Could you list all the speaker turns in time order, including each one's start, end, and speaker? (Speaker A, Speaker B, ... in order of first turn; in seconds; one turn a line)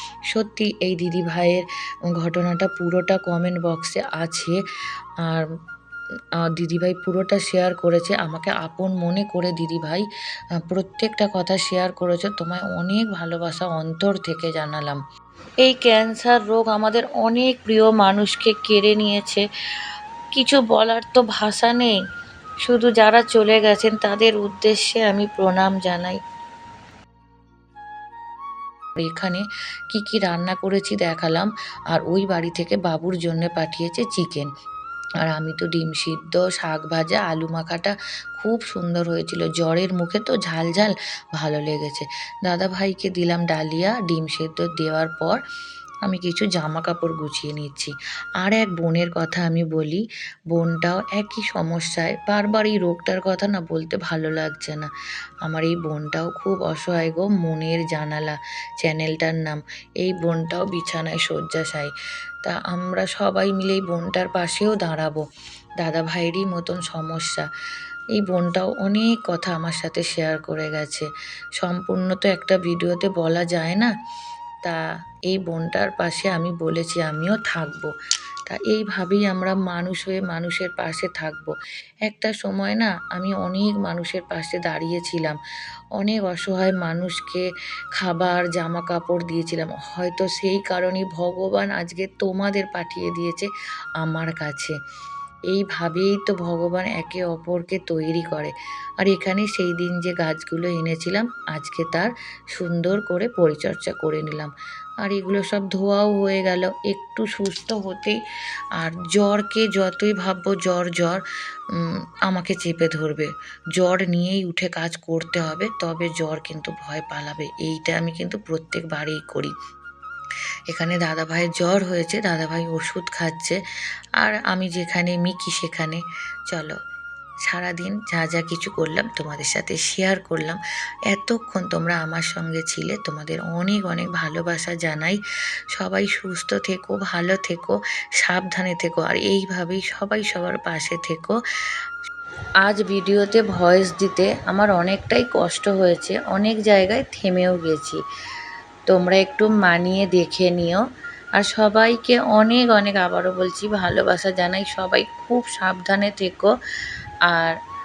Speaker A: 0.3-4.6
Speaker A: 6.4-10.1
Speaker A: 10.7-15.0
Speaker A: 15.6-19.4
Speaker A: 20.3-22.0
Speaker A: 22.6-26.2
Speaker A: 29.0-34.5
Speaker A: 35.2-45.4
Speaker A: 46.1-54.9
Speaker A: 55.4-65.2
Speaker A: 65.8-67.5
Speaker A: 68.2-73.9
Speaker A: 74.6-77.9
Speaker A: 78.5-81.5
Speaker A: 82.1-85.4
Speaker A: 86.0-94.8
Speaker A: 95.5-104.5
Speaker A: 105.0-108.2
Speaker A: 108.8-119.5
Speaker A: 120.7-123.6
Speaker A: 124.2-126.8
Speaker A: 127.5-135.2
Speaker A: 135.7-141.4
Speaker A: 142.6-148.0
Speaker A: 148.9-150.8
Speaker A: 151.4-156.5
Speaker A: 157.3-157.6